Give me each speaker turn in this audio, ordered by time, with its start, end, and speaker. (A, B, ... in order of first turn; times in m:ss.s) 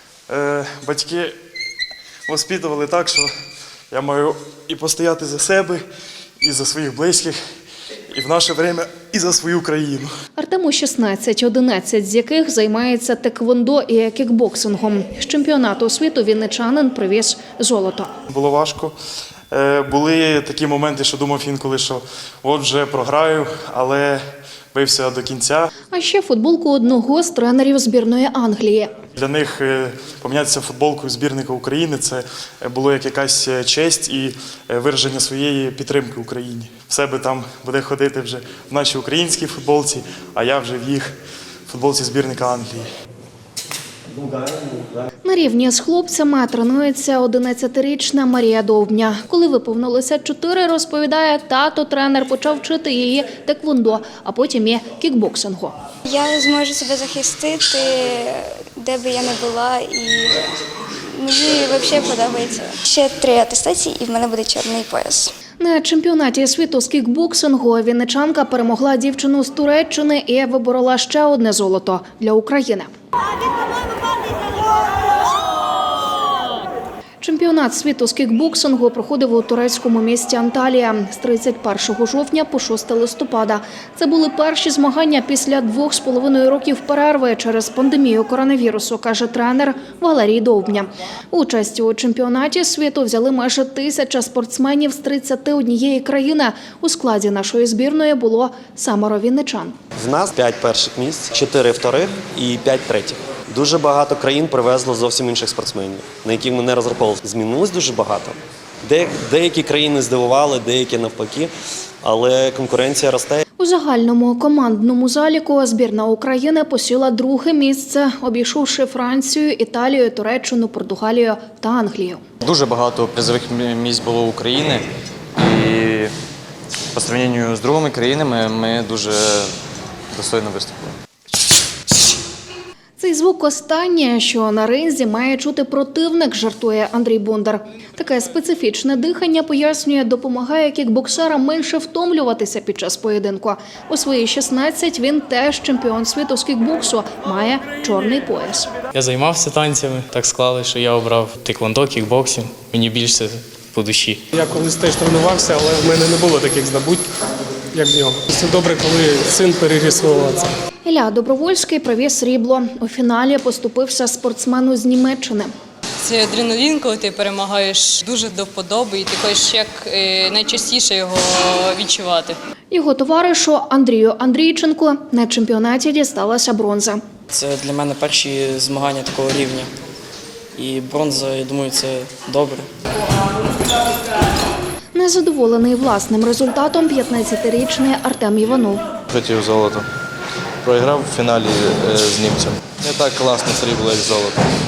0:00.3-0:01.3 A
0:02.3-0:03.3 A
0:03.9-0:05.8 A
0:06.4-0:07.4 A
0:08.1-0:10.1 A
0:10.4-0:18.1 B
0:18.3-0:18.9 A
0:19.5-0:24.2 A
0:24.7-0:25.7 A
0:25.9-0:29.0 B
0:29.1-0:41.1 A
0:41.7-0:42.8 A
0:44.1-0:45.1 C
0:45.2-0:55.7 B
0:56.0-1:00.5 D
1:01.1-1:05.3 D
1:05.6-1:12.9 B
1:17.2-1:39.7 B
1:40.0-1:51.5 C
1:52.0-1:53.4 C
1:53.6-2:02.2 B
2:02.4-2:04.8 E
2:05.4-2:06.1 E
2:06.9-2:09.5 E
2:10.1-2:10.9 E
2:13.0-2:28.7 B
2:28.9-2:34.2 F
2:34.3-2:37.0 G
2:37.7-2:40.5 G
2:40.8-2:45.5 B
2:46.0-2:52.3 H
2:52.7-2:57.0 B
2:57.3-2:59.7 I
3:00.6-3:02.7 I
3:04.9-3:08.8 B
3:09.1-3:09.9 J
3:10.6-3:14.4 J